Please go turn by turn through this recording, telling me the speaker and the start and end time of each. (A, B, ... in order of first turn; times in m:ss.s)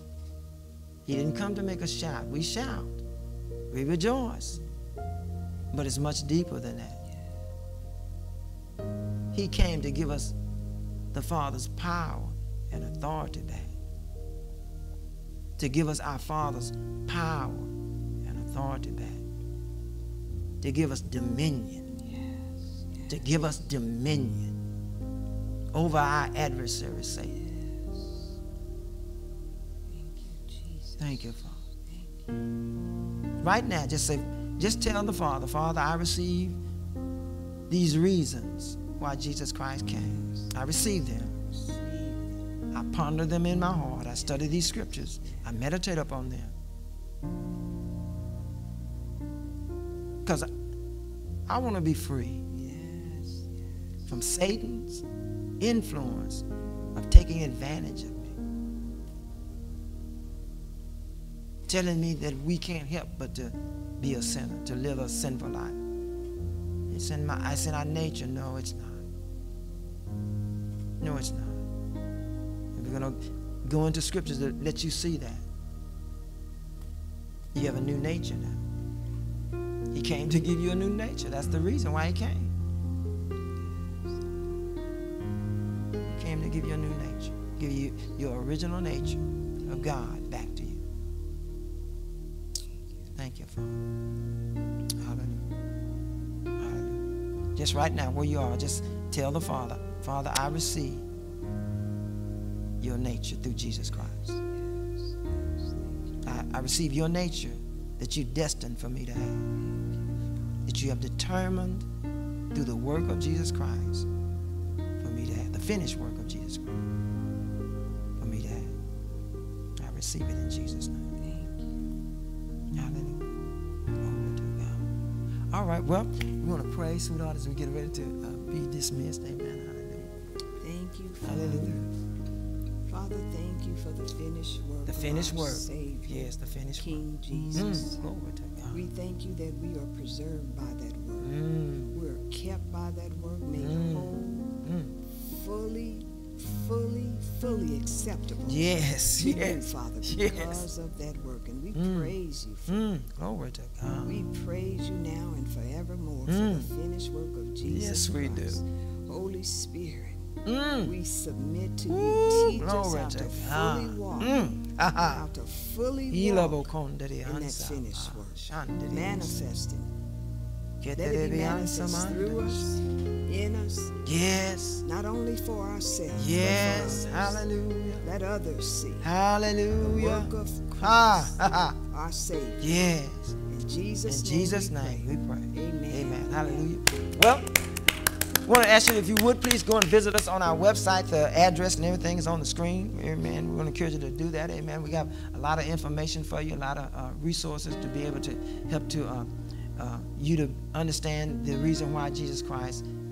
0:01.1-0:03.0 A
0:03.7-0:04.6 A
0:05.7-0:07.0 A
0:09.3-0:10.4 A
0:11.1-0:13.7 A
0:15.6-0:17.7 A
0:18.2-0:19.2 A
0:20.6-0:21.8 A
0:22.0-0:23.3 B
0:23.1-0:24.5 A
0:25.7-0:27.3 A
0:27.2-0:28.3 B
0:29.9-0:31.3 B
0:31.0-0:31.6 A
0:31.8-0:32.4 B
0:33.4-0:36.6 A
0:37.7-0:41.3 A
0:39.9-0:40.7 B
0:41.2-0:42.4 B
0:42.7-0:46.5 A
0:44.1-0:45.5 B
0:50.2-0:50.5 A
0:51.5-0:52.4 A
0:52.5-0:54.1 B
0:54.1-0:55.0 A
0:55.6-0:56.4 A
0:57.0-0:58.4 A
1:01.7-1:05.8 A
1:06.9-1:09.0 A
1:11.0-1:11.6 A
1:12.8-1:15.4 A
1:17.5-1:18.6 A
1:19.9-1:22.5 A
1:23.6-1:24.4 B
1:26.1-1:30.8 A
1:33.1-1:33.8 A
1:35.0-1:35.5 A
1:36.6-1:37.0 A
1:37.5-1:41.0 A
1:42.8-1:44.2 A
1:43.8-1:46.2 B
1:46.2-1:49.5 A
1:49.6-1:50.2 B
1:50.6-1:51.9 A
1:52.5-1:54.1 A
1:55.0-1:56.8 A
1:58.2-1:58.7 A
1:59.8-2:01.0 A
2:01.2-2:01.9 B
2:02.7-2:03.3 A
2:04.0-2:04.9 A
2:05.5-2:10.1 A
2:10.6-2:11.9 B
2:11.2-2:11.8 A
2:12.9-2:16.2 B
2:14.9-2:18.8 A
2:16.8-2:18.0 B
2:18.7-2:21.3 B
2:21.2-2:21.9 A
2:21.9-2:24.6 B
2:23.6-2:25.0 A
2:25.1-2:32.8 B
2:28.4-2:30.6 A
2:31.8-2:32.1 A
2:32.7-2:34.3 A
2:34.0-2:40.3 B
2:36.3-2:36.7 A
2:37.6-2:38.6 A
2:40.4-2:40.9 A
2:40.8-2:46.6 B
2:41.9-2:45.2 A
2:46.1-2:49.4 A
2:47.2-2:49.9 B
2:50.8-2:52.7 A
2:51.0-2:54.0 B
2:54.0-2:54.8 A
2:54.8-2:57.4 B
2:56.1-2:58.1 A
2:58.0-2:59.1 B
2:59.0-3:01.8 A
2:59.8-3:02.7 B
3:02.6-3:03.4 A
3:03.5-3:06.7 B
3:04.1-3:07.5 A
3:08.4-3:22.8 A